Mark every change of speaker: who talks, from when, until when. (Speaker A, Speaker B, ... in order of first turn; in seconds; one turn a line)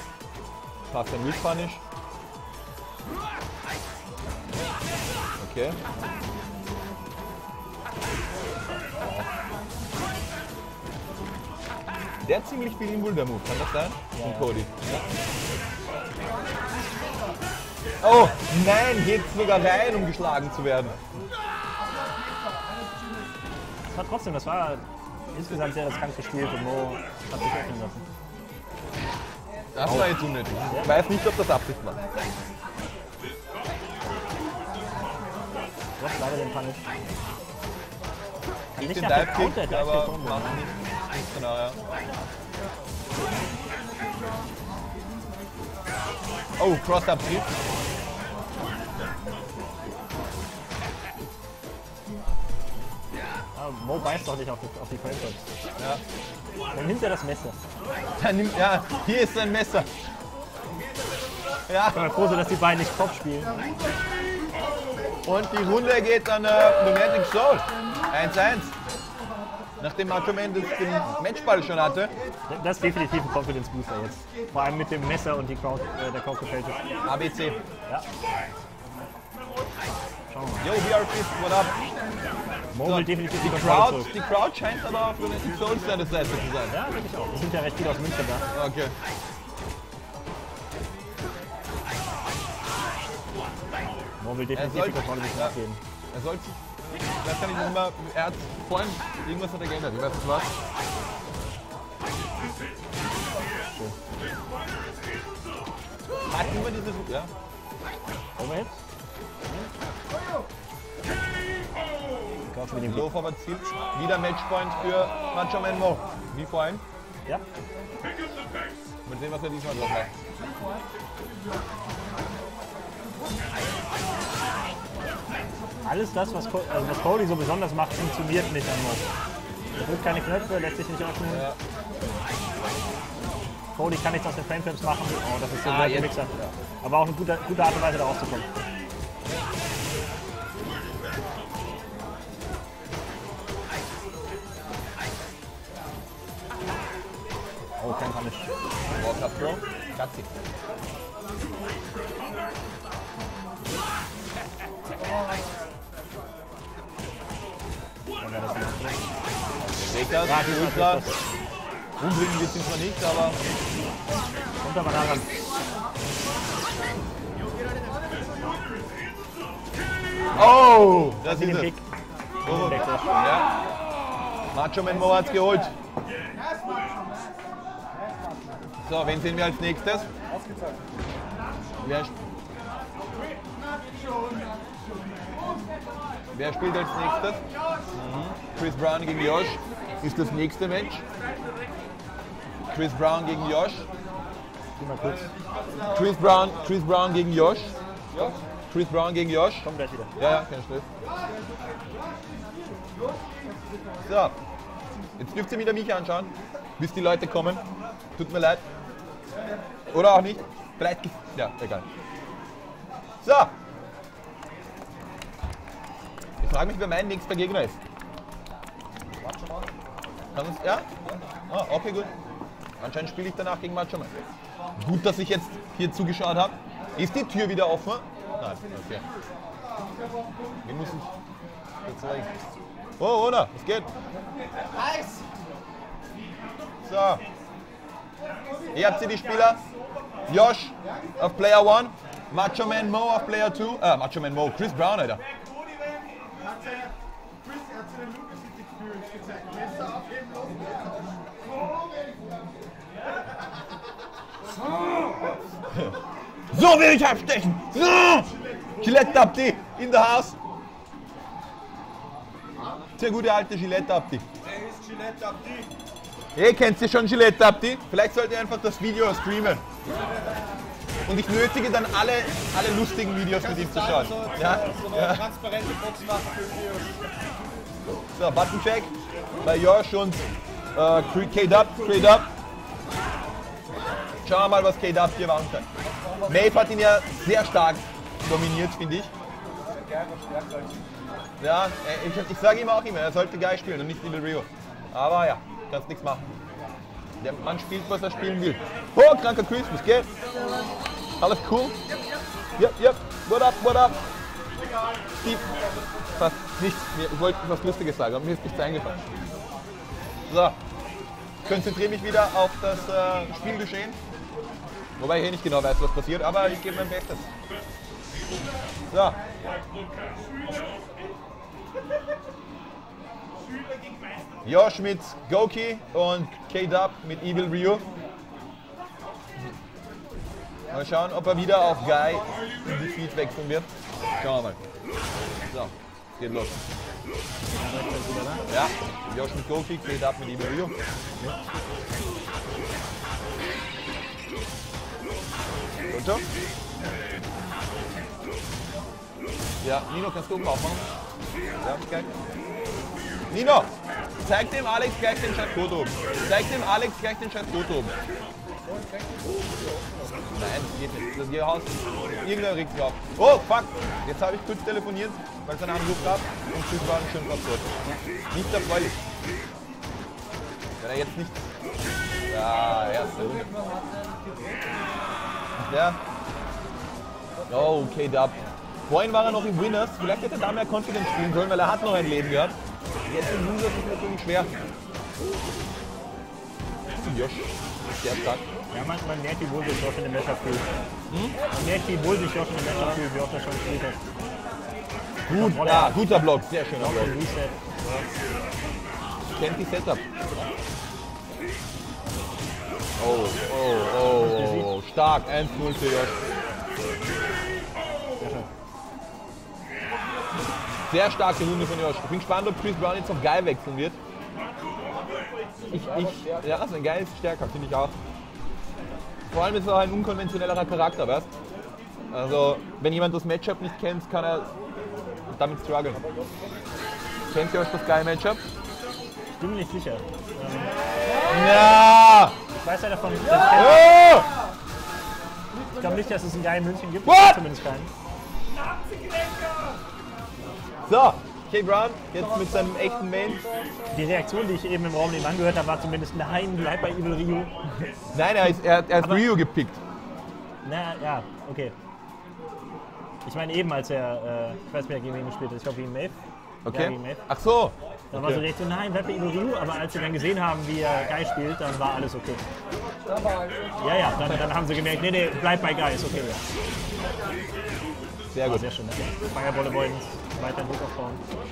Speaker A: 0.9-1.8
Speaker A: 5.4-5.8
Speaker A: 9.0-9.2
Speaker A: 12.2-15.0
Speaker B: 14.2-14.5
Speaker A: 18.0-20.9
Speaker B: 23.9-24.8
Speaker B: 25.3-28.0
Speaker A: 29.7-32.0
Speaker B: 29.9-30.2
Speaker B: 36.0-36.8
Speaker A: 38.8-41.8
Speaker B: 38.8-40.6
Speaker A: 46.6-47.5
Speaker B: 53.5-55.4
Speaker B: 56.7-57.5
Speaker A: 58.2-59.9
Speaker A: 61.7-62.0
Speaker B: 61.9-63.6
Speaker A: 65.2-68.7
Speaker A: 69.8-72.1
Speaker B: 72.5-76.8
Speaker A: 77.0-77.6
Speaker B: 80.3-80.7
Speaker A: 80.6-81.7
Speaker B: 82.7-84.1
Speaker A: 82.8-86.8
Speaker B: 86.7-88.5
Speaker A: 88.5-88.9
Speaker B: 94.2-95.8
Speaker A: 94.5-95.6
Speaker A: 96.1-96.5
Speaker A: 97.2-100.5
Speaker A: 106.2-107.3
Speaker B: 108.4-108.7
Speaker B: 112.5-113.1
Speaker A: 112.8-116.8
Speaker A: 119.1-120.1
Speaker B: 125.8-129.0
Speaker B: 129.8-131.4
Speaker A: 131.3-131.6
Speaker B: 133.7-136.3
Speaker A: 135.6-136.5
Speaker B: 136.8-138.4
Speaker B: 147.8-148.5
Speaker A: 148.9-150.3
Speaker B: 158.2-159.0
Speaker A: 159.9-161.0
Speaker B: 160.2-161.2
Speaker A: 162.0-163.4
Speaker B: 164.6-165.3
Speaker A: 170.3-171.7
Speaker B: 171.2-171.8
Speaker B: 172.4-173.1
Speaker A: 172.4-173.5
Speaker A: 174.5-175.7
Speaker A: 178.8-180.1
Speaker C: 180.3-180.8
Speaker A: 181.8-182.2
Speaker A: 186.3-187.4
Speaker A: 187.9-191.0
Speaker A: 192.7-193.8
Speaker B: 194.8-195.3
Speaker A: 195.9-199.6
Speaker B: 199.6-200.1
Speaker A: 200.2-200.9
Speaker A: 204.1-204.3
Speaker A: 205.2-207.6
Speaker A: 208.2-208.6
Speaker A: 209.9-211.8
Speaker A: 213.2-213.5
Speaker A: 216.4-217.8
Speaker C: 219.2-219.7
Speaker A: 220.3-220.9
Speaker A: 221.5-222.1
Speaker A: 222.8-224.1
Speaker A: 224.8-229.0
Speaker A: 230.6-231.1
Speaker A: 231.8-232.3
Speaker A: 233.0-233.9
Speaker A: 236.8-237.2
Speaker A: 238.7-239.6
Speaker A: 240.3-245.2
Speaker A: 256.5-260.4
Speaker A: 263.0-264.2
Speaker C: 264.8-265.4
Speaker A: 266.3-269.6
Speaker A: 271.1-275.3
Speaker C: 273.4-276.9
Speaker A: 278.1-280.2
Speaker A: 280.7-282.3
Speaker A: 284.2-285.6
Speaker C: 285.9-286.5
Speaker A: 286.3-289.1
Speaker C: 289.7-290.8
Speaker A: 291.4-296.3
Speaker A: 297.2-300.1
Speaker A: 301.2-301.8
Speaker A: 302.6-304.0
Speaker A: 305.2-305.5
Speaker A: 306.2-309.0
Speaker A: 310.3-310.6
Speaker A: 311.4-314.0
Speaker A: 315.0-317.2
Speaker A: 318.9-319.2
Speaker A: 324.4-327.9
Speaker A: 330.7-333.7
Speaker A: 334.2-334.6
Speaker A: 335.5-336.6
Speaker B: 337.6-338.4
Speaker A: 338.5-340.7
Speaker A: 345.9-346.2
Speaker A: 349.6-350.9
Speaker A: 351.6-352.1
Speaker A: 353.3-353.7
Speaker A: 354.2-357.9
Speaker C: 358.6-360.1
Speaker A: 360.3-367.7
Speaker A: 368.3-369.0
Speaker A: 370.8-371.4
Speaker A: 372.3-373.5
Speaker C: 373.3-374.1
Speaker A: 375.7-376.0
Speaker A: 377.5-382.5
Speaker A: 383.1-384.5
Speaker A: 387.0-387.5
Speaker A: 388.0-388.4
Speaker B: 388.7-390.6
Speaker A: 391.1-391.4
Speaker B: 391.5-394.0
Speaker A: 392.7-393.0
Speaker A: 395.3-397.1
Speaker B: 395.3-396.0
Speaker B: 396.8-397.5
Speaker A: 399.4-400.5
Speaker A: 403.0-406.1
Speaker B: 404.1-404.7
Speaker B: 408.2-408.4
Speaker A: 410.9-414.0
Speaker C: 415.7-416.6
Speaker A: 415.7-417.9
Speaker A: 419.3-421.3
Speaker A: 422.1-424.5
Speaker A: 425.3-426.0
Speaker C: 425.9-426.6
Speaker A: 427.3-428.4
Speaker B: 429.4-430.7
Speaker A: 431.3-432.3
Speaker B: 432.6-433.8
Speaker A: 433.5-434.3
Speaker B: 435.8-437.9
Speaker A: 437.0-437.4
Speaker A: 440.9-443.4
Speaker B: 443.9-447.5
Speaker A: 448.1-449.8
Speaker B: 450.6-451.7
Speaker B: 453.2-456.1
Speaker A: 456.6-458.4
Speaker B: 456.7-457.2
Speaker B: 458.1-462.4
Speaker C: 463.1-463.7
Speaker B: 463.8-466.4
Speaker A: 464.2-464.5
Speaker A: 468.3-468.6
Speaker B: 468.4-471.2